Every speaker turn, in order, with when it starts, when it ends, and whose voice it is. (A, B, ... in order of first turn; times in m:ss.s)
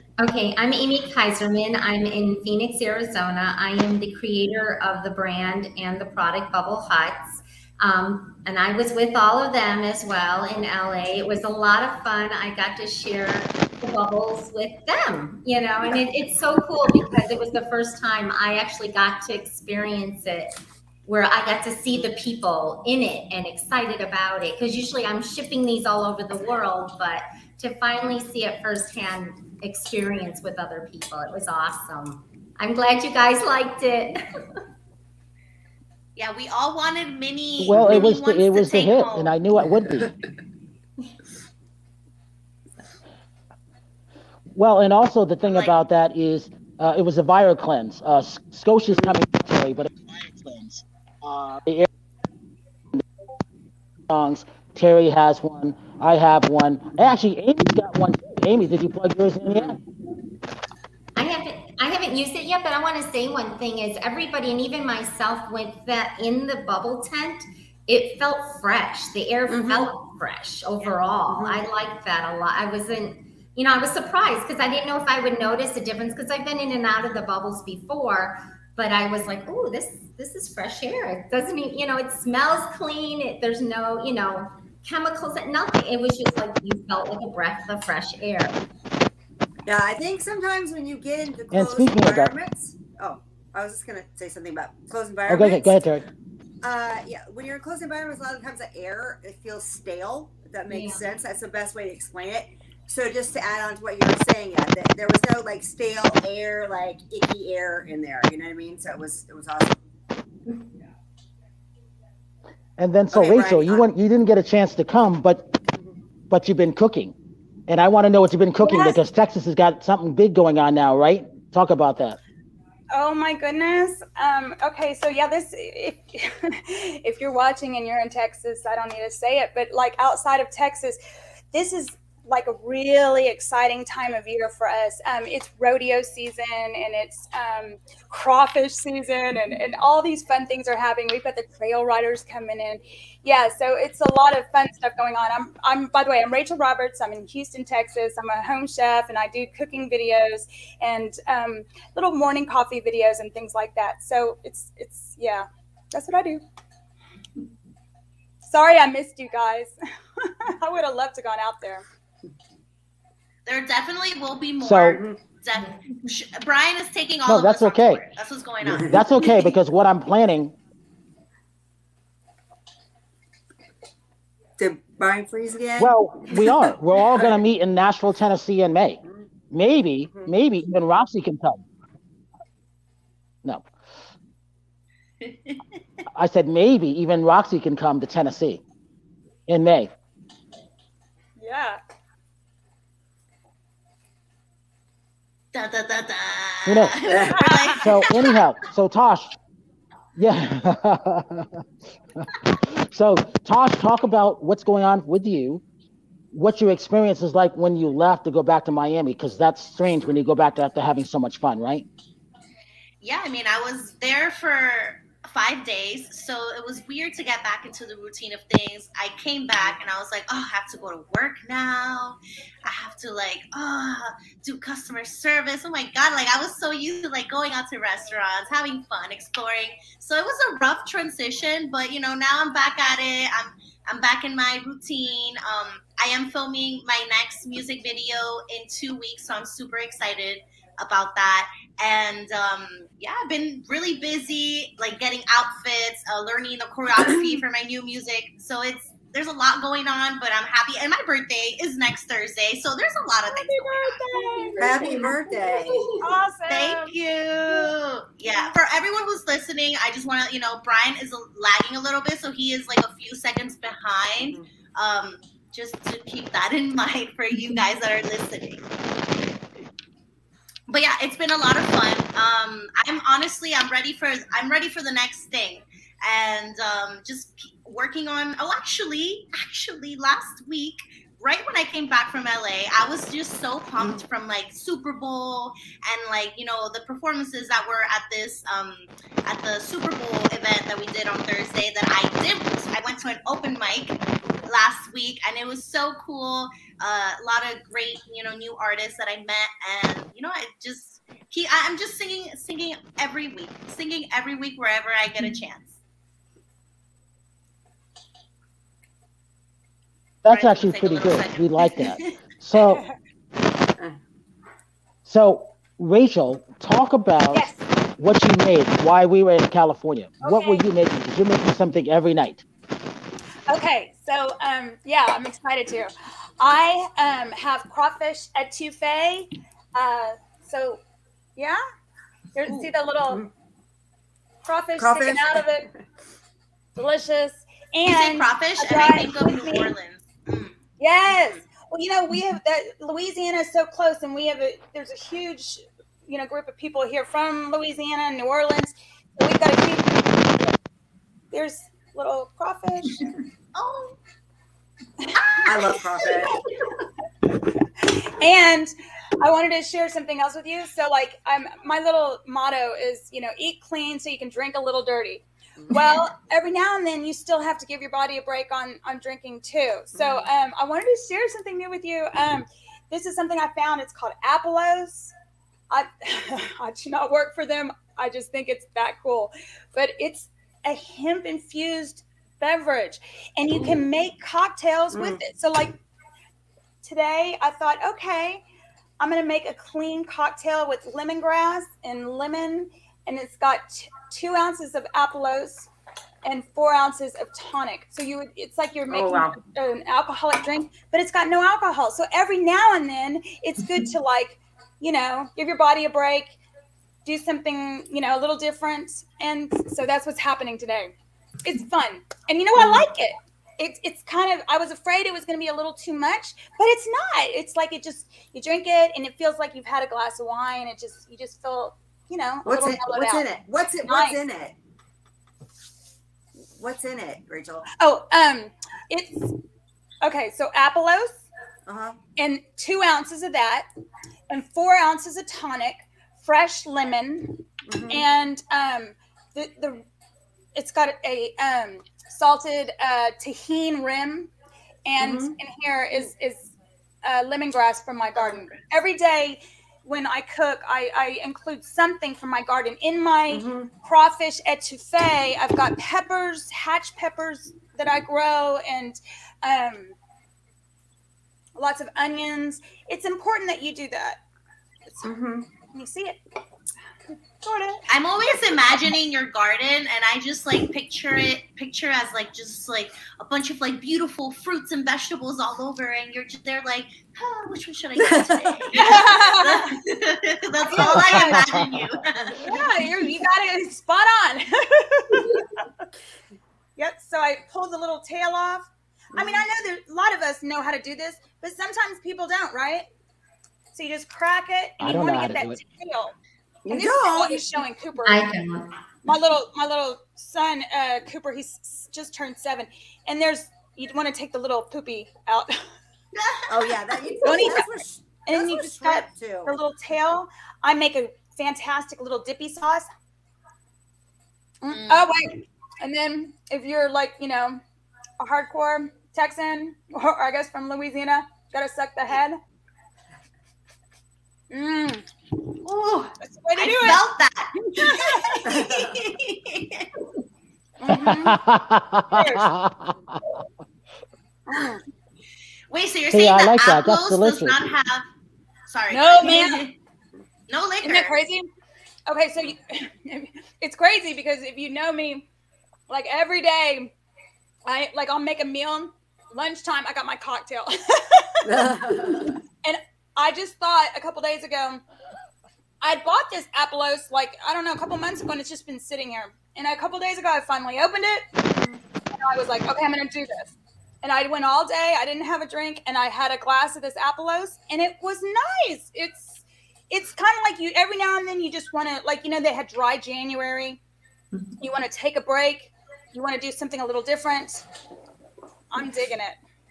0:00.2-0:20.5 A
0:21.0-0:34.2 A
0:36.2-0:39.4 B
0:37.6-0:40.1 C
0:37.7-0:38.0 D
0:44.5-0:51.9 C
0:45.5-0:45.7 B
0:54.1-0:59.8 C
0:59.5-0:59.8 D
1:01.2-1:28.6 A
1:09.5-1:09.9 D
1:11.3-1:11.6 D
1:29.6-1:35.8 D
1:31.5-1:32.3 C
1:35.3-1:36.0 C
1:36.6-1:49.8 D
1:40.7-1:41.0 A
1:52.8-1:55.5 C
1:53.1-1:53.8 D
1:56.3-1:57.1 C
1:57.7-2:02.2 C
1:58.6-1:59.0 E
2:02.9-2:11.0 E
2:11.5-2:36.4 E
2:38.4-2:41.8 E
2:43.4-2:49.4 B
2:44.6-2:45.0 C
2:44.9-2:45.2 D
2:47.2-2:48.0 C
2:48.6-2:50.5 C
2:54.6-2:56.7 D
2:55.8-3:01.6 C
3:05.2-3:05.6 B
3:06.1-3:08.6 C
3:09.5-3:09.9 C
3:11.4-3:11.8 E
3:15.5-3:18.4 B
3:16.6-3:17.0 C
3:17.0-3:17.4 D
3:17.3-3:18.0 E
3:17.8-3:19.3 C
3:20.2-3:21.6 C
3:22.6-3:25.6 C
3:26.3-3:31.9 C
3:33.0-4:14.0 B
4:13.3-4:15.1 E
4:14.1-4:16.1 A
4:14.6-4:15.9 D
4:16.0-4:16.9 E
4:16.5-4:28.6 B
4:30.7-5:05.8 B
5:10.2-5:12.8 C
5:10.3-5:12.1 B
5:12.6-5:12.9 E
5:15.0-5:22.4 C
5:17.3-5:17.6 E
5:20.2-5:20.6 E
5:23.5-5:30.8 E
5:32.3-5:33.2 E
5:32.5-5:33.3 D
5:34.4-5:35.7 E
5:34.8-5:35.6 D
5:36.8-5:39.7 E
5:37.8-5:40.6 B
5:40.8-5:50.4 E
5:51.3-5:53.1 E
5:53.5-5:54.0 B
5:55.0-5:55.5 E
5:55.2-5:56.1 B
5:55.4-5:56.4 D
5:57.8-6:15.1 E
6:10.0-6:10.2 D
6:15.7-6:25.8 E
6:24.9-6:25.2 D
6:26.8-6:28.4 E
6:29.0-6:35.7 E
6:36.2-6:46.4 E
6:38.9-6:39.4 D
6:47.0-7:03.2 E
7:02.4-7:04.5 D
7:03.8-7:04.2 E
7:06.5-7:07.6 D
7:07.8-7:09.3 E
7:10.0-7:11.2 E
7:11.7-7:12.0 D
7:12.2-7:13.7 E
7:14.3-7:17.4 E
7:17.7-7:18.0 D
7:17.9-7:19.8 E
7:20.5-7:24.3 E
7:24.8-7:26.5 E
7:25.0-7:25.4 D
7:27.0-7:39.9 E
7:28.2-7:28.6 B
7:33.3-7:33.7 D
7:41.6-7:44.2 E
7:45.0-7:45.4 D
7:45.7-7:46.2 E
7:47.1-7:48.5 E
7:47.9-8:02.4 B
7:58.0-7:58.6 D
7:58.7-7:59.8 E
8:00.6-8:01.4 E
8:00.8-8:02.0 C
8:02.4-8:05.7 E
8:06.8-8:12.9 E
8:09.1-8:09.4 D
8:13.7-8:16.1 E
8:14.8-8:15.6 C
8:16.6-8:17.4 D
8:16.7-8:18.3 E
8:18.0-8:18.7 A
8:19.0-8:25.7 E
8:26.1-8:27.2 B
8:26.5-8:29.6 D
8:27.2-8:27.7 E
8:28.2-8:32.9 E
8:34.6-8:37.6 E
8:34.7-8:35.1 B
8:38.2-8:42.4 E
8:44.5-8:45.1 E
8:45.6-8:49.9 B
8:46.2-8:47.1 E
8:47.7-8:48.5 E
8:48.5-8:49.0 D
8:50.8-8:51.4 D
8:50.9-8:53.2 C
8:52.1-8:52.5 E
8:54.5-8:54.8 E
8:55.7-8:58.0 B
8:56.1-8:57.6 C
8:58.7-8:59.7 B
8:58.9-8:59.7 E
9:00.5-9:01.2 B
9:00.8-9:01.5 E
9:02.1-9:05.3 E
9:05.9-9:06.9 E
9:07.6-9:11.7 E
9:11.4-9:12.3 D
9:12.6-9:14.8 E
9:15.8-9:21.3 E
9:22.1-9:33.8 E
9:34.6-9:37.6 E
9:38.7-9:39.4 E